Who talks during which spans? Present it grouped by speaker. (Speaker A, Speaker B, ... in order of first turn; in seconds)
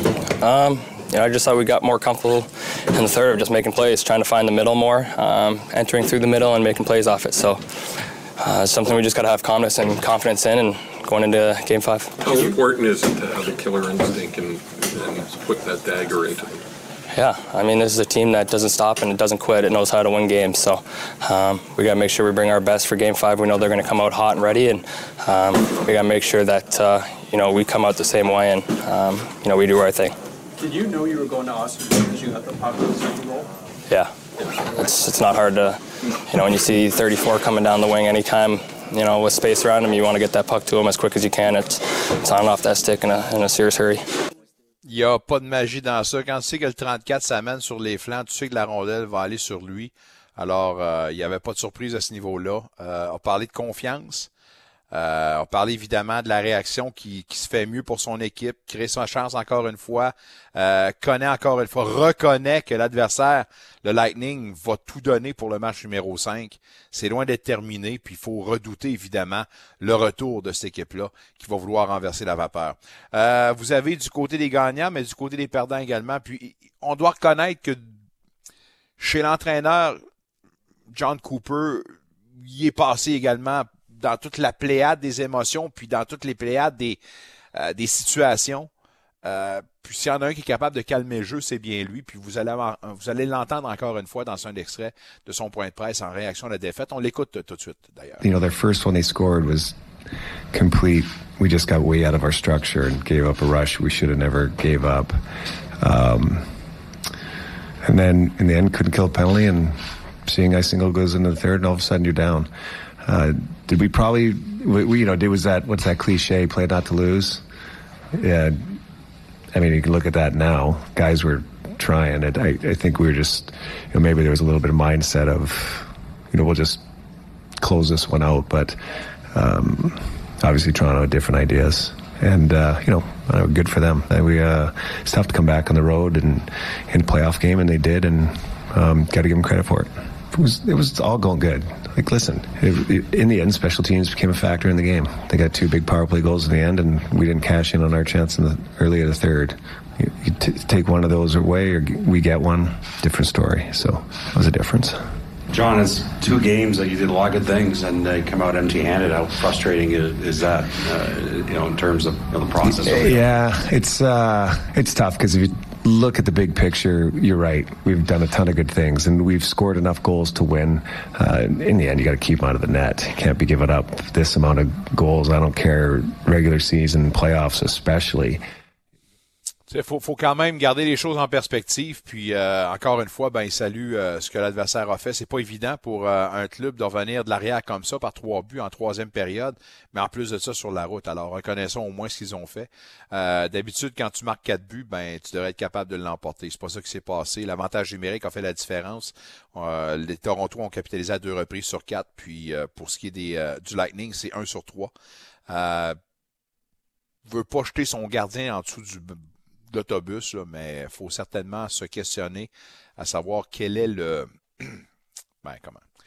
Speaker A: 0.4-7.6, 8.4-12.3, 17.1-30.1, 34.8-44.0
Speaker B: 12.2-16.6
Speaker C: 30.6-33.5
Speaker D: 44.8-54.3, 54.9-77.8, 79.0-80.0, 80.9-87.0, 87.5-88.7, 89.2-98.2, 179.7-204.9, 205.5-206.0, 207.3-209.2, 209.7-214.8, 215.4-215.8
Speaker E: 98.2-99.8, 100.5-105.2, 105.8-106.5, 107.8-112.5, 113.0-117.4, 118.2-118.8, 119.5-126.8, 127.6-128.8, 129.3-155.0, 162.8-178.4
Speaker F: 155.5-163.2